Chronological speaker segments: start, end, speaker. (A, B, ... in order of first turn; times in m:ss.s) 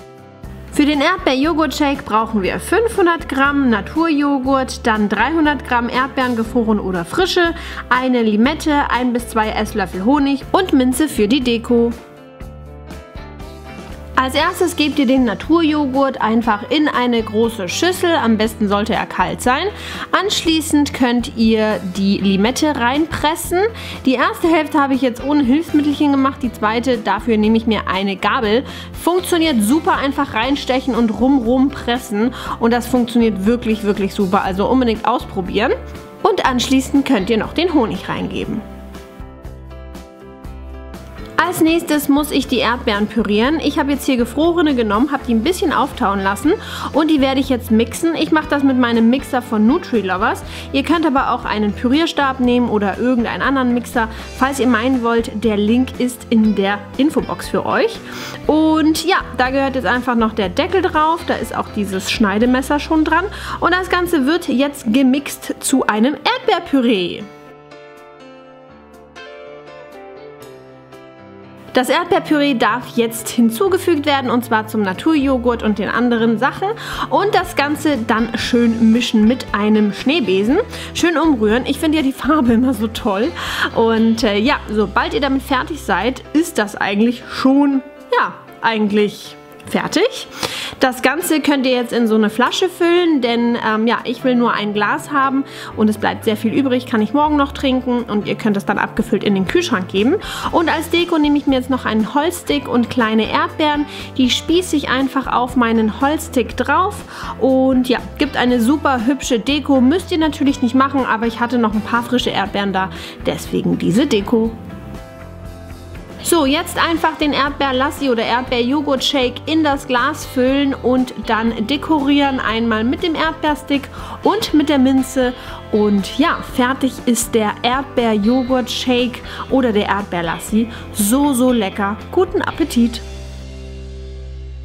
0:00.7-0:11.9 A
0:14.2-0:38.6 A
0:41.4-1:07.3 A
1:11.7-1:54.6 A
1:56.2-2:13.0 A